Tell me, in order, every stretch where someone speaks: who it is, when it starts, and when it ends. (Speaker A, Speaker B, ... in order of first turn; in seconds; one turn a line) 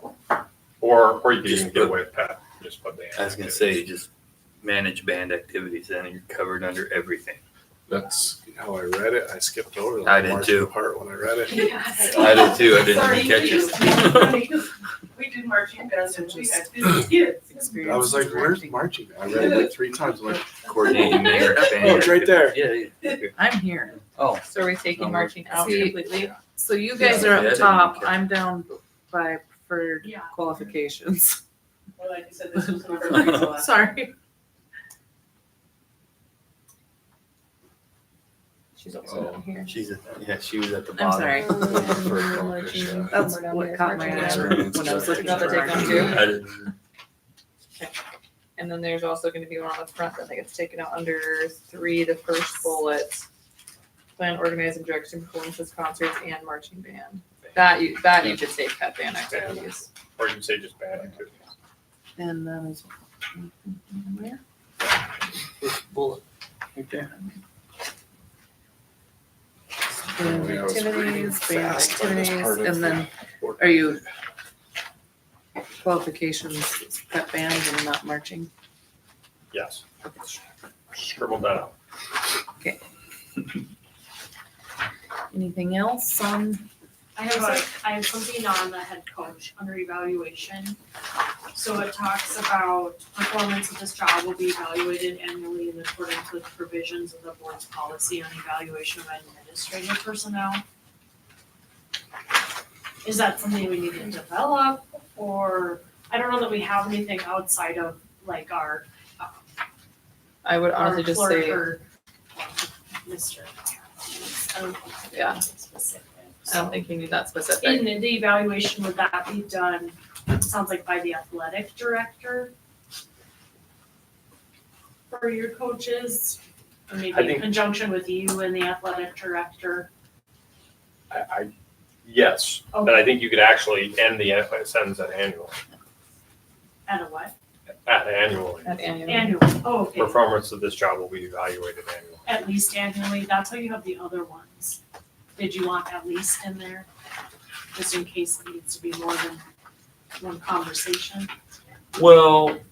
Speaker A: 0.8-3.8
Speaker B: 1.4-1.9
Speaker B: 3.1-4.1
Speaker B: 4.6-7.4
Speaker C: 7.9-11.6
Speaker B: 10.0-10.7
Speaker D: 11.5-12.7
Speaker E: 11.9-17.7
Speaker B: 12.2-14.4
Speaker F: 16.1-16.6
Speaker F: 17.5-19.6
Speaker C: 17.8-22.6
Speaker B: 20.9-23.4
Speaker F: 23.3-24.0
Speaker B: 23.9-26.3
Speaker G: 24.4-26.4
Speaker F: 25.5-31.4
Speaker B: 26.9-28.4
Speaker D: 30.0-30.3
Speaker E: 32.0-33.9
Speaker F: 33.1-34.1
Speaker G: 38.8-39.8
Speaker B: 39.7-42.4
Speaker F: 41.0-41.9
Speaker G: 41.4-46.3
Speaker C: 42.2-43.2
Speaker F: 43.1-46.2
Speaker B: 44.5-45.1
Speaker C: 45.1-45.6
Speaker B: 45.6-46.7
Speaker G: 48.6-53.2
Speaker G: 54.2-59.9
Speaker A: 59.3-61.4
Speaker F: 62.1-64.4
Speaker B: 65.6-66.2
Speaker B: 66.7-67.1
Speaker F: 70.1-74.0
Speaker C: 70.2-74.0
Speaker F: 75.8-78.5
Speaker A: 79.5-79.8
Speaker A: 80.9-81.7
Speaker F: 85.3-86.7
Speaker D: 87.2-90.8
Speaker D: 91.5-100.6
Speaker D: 103.0-109.3
Speaker G: 110.4-111.7
Speaker D: 110.8-116.8
Speaker G: 115.1-115.4
Speaker G: 116.5-118.0
Speaker D: 117.6-122.5
Speaker D: 125.1-126.4
Speaker D: 126.9-129.9
Speaker A: 127.1-127.5
Speaker A: 131.1-131.5
Speaker A: 132.0-135.6
Speaker D: 132.7-133.2
Speaker D: 136.9-137.3
Speaker A: 137.8-138.8
Speaker G: 138.6-139.4
Speaker D: 139.1-140.2
Speaker A: 139.9-142.3
Speaker D: 142.2-144.8
Speaker D: 145.4-146.9
Speaker D: 147.7-149.4
Speaker D: 150.2-151.3
Speaker A: 151.9-152.6